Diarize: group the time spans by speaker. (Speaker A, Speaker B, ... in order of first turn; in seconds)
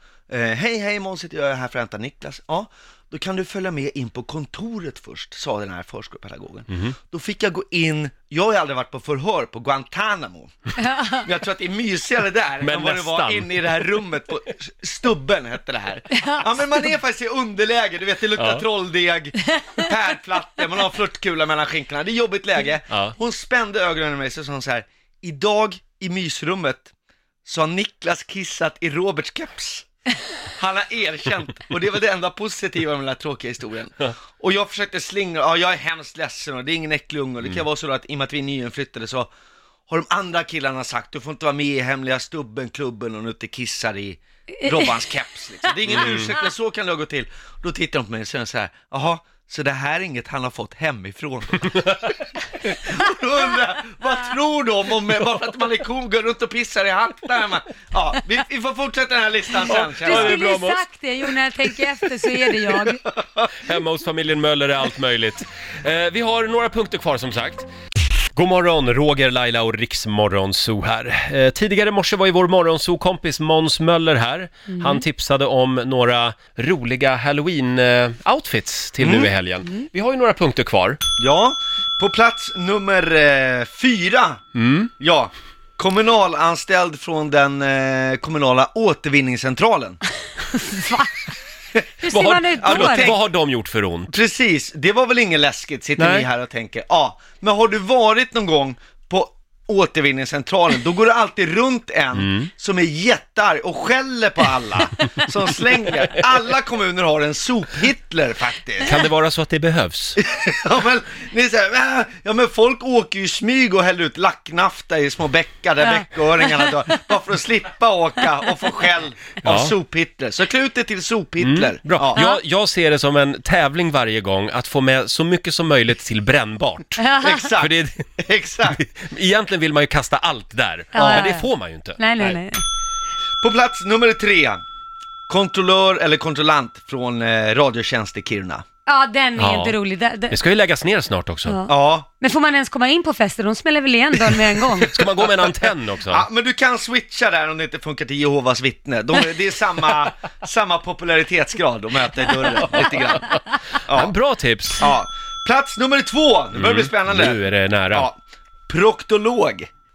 Speaker A: 0.3-10.7, 11.2-26.9, 27.4-29.9, 30.5-39.3, 39.9-60.4, 63.0-63.5, 79.0-79.3, 81.2-84.4, 85.0-90.0, 92.6-93.2, 94.1-109.0, 110.2-122.2, 127.2-128.8, 130.9-131.3, 133.4-134.6, 135.3-138.6, 141.7-142.1, 144.2-153.3, 153.8-154.1, 154.8-159.7
Speaker B: 6.7-6.9, 12.6-13.7, 18.4-18.6, 22.9-23.1, 59.6-60.8, 63.5-67.7, 68.3-81.0, 84.5-84.9, 92.1-94.1, 96.0-96.3, 102.1-102.5, 108.8-110.2, 119.4-119.7, 121.4-127.0, 127.6-128.1, 128.7-132.4, 139.4-139.8, 140.3-141.6, 144.9-146.2, 152.7-153.3, 153.9-154.9, 156.5-158.1
Speaker C: 10.8-11.3, 16.1-16.8, 44.6-45.0, 60.0-63.0, 74.7-75.0, 90.5-91.3, 92.0-93.1, 115.8-117.1, 122.1-122.4, 127.0-127.6, 130.9-132.6, 138.8-140.4, 141.4-145.0